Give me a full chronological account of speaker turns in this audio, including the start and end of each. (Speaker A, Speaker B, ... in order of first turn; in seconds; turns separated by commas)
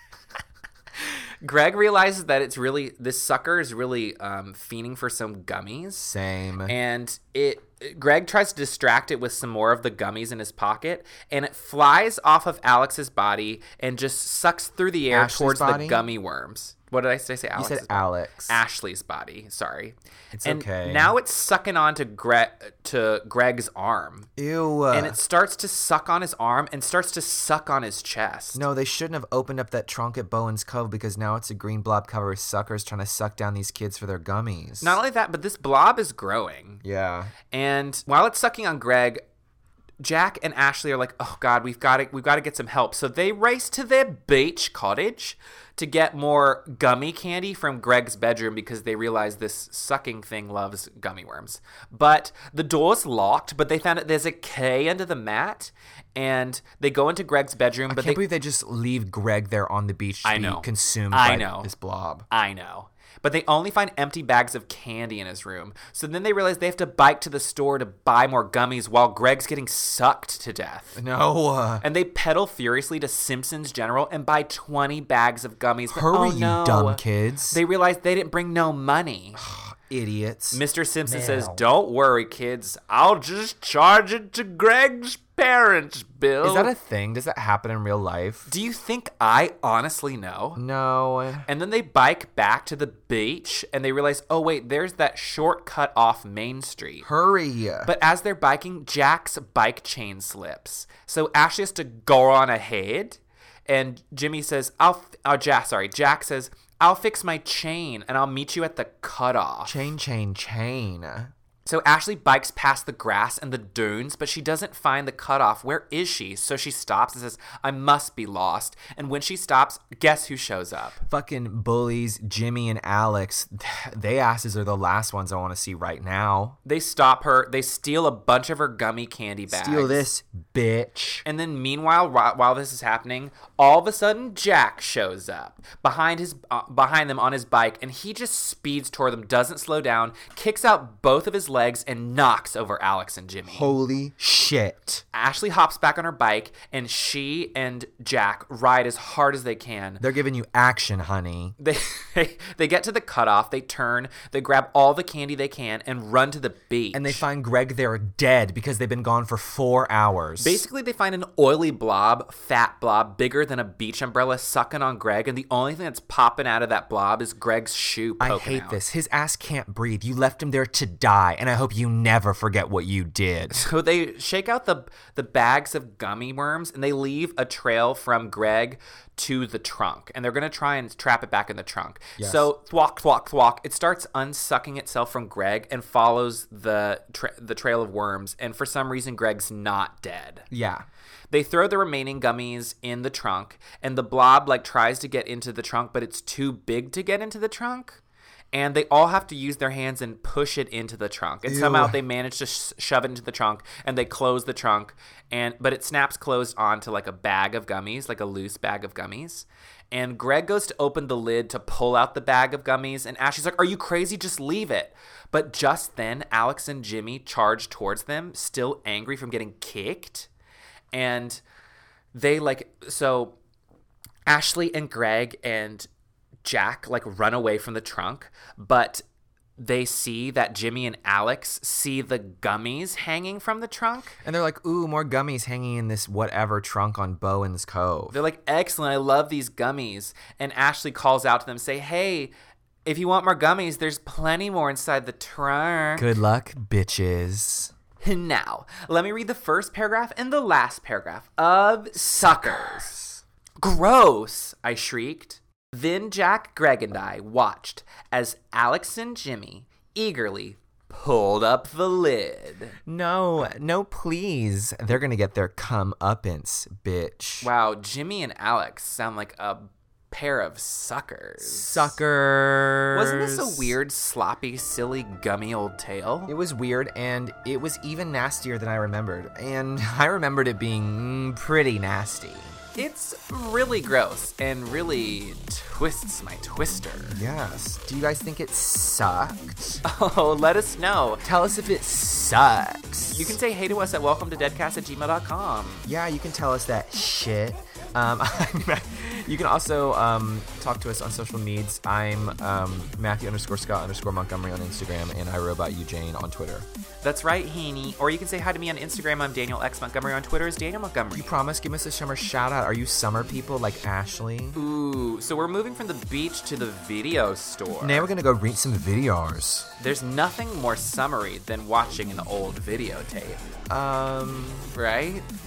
Speaker A: 1.0-6.1, Speaker B: 6.0-6.8, Speaker A: 6.7-24.3, Speaker B: 15.1-16.0, Speaker B: 17.6-18.6, Speaker B: 20.3-21.1, Speaker B: 24.4-25.2, Speaker A: 24.9-28.6, Speaker B: 28.5-35.0, Speaker A: 34.8-36.8, Speaker B: 36.8-37.3, Speaker A: 37.5-39.2, Speaker A: 40.0-58.2, Speaker B: 57.9-62.2, Speaker A: 60.2-61.7, Speaker A: 62.3-71.0, Speaker B: 70.9-71.8, Speaker A: 71.8-79.4, Speaker B: 75.9-77.6, Speaker B: 79.3-81.6, Speaker A: 80.5-86.7, Speaker B: 86.4-88.5, Speaker A: 88.5-90.6, Speaker B: 90.5-91.5, Speaker A: 91.4-97.1, Speaker B: 97.0-97.9, Speaker A: 97.8-109.8, Speaker B: 109.6-111.3, Speaker A: 111.7-121.0, Speaker B: 121.0-126.6, Speaker A: 126.6-130.1, Speaker B: 129.5-131.2, Speaker A: 131.2-143.7, Speaker B: 143.4-145.0, Speaker A: 145.1-150.0, Speaker B: 150.0-151.5, Speaker A: 151.6-157.2, Speaker B: 156.9-160.6, Speaker A: 160.4-168.8, Speaker B: 168.2-173.6, Speaker A: 173.5-190.4, Speaker B: 182.2-182.5, Speaker B: 190.5-190.8, Speaker A: 191.3-198.0, Speaker A: 198.5-220.3, Speaker B: 201.4-202.0, Speaker A: 220.9-221.4, Speaker A: 222.1-223.4, Speaker A: 224.3-225.9, Speaker A: 226.4-229.0, Speaker A: 229.6-234.2, Speaker B: 234.2-238.2, Speaker A: 238.1-242.3, Speaker A: 242.8-246.1, Speaker B: 245.9-247.7, Speaker A: 248.0-253.0, Speaker B: 251.9-253.2, Speaker A: 253.6-262.8, Speaker B: 262.9-267.5, Speaker A: 267.4-272.0, Speaker B: 271.4-273.8, Speaker A: 272.9-276.3, Speaker B: 276.3-282.6, Speaker A: 282.7-287.2, Speaker B: 287.1-289.8, Speaker A: 289.8-291.2, Speaker B: 291.2-293.4, Speaker A: 293.1-295.9, Speaker B: 295.9-306.7, Speaker A: 307.0-311.4, Speaker B: 311.1-314.6, Speaker A: 314.5-318.1, Speaker B: 317.8-319.7, Speaker A: 319.8-323.4, Speaker B: 323.7-324.7, Speaker A: 324.7-325.3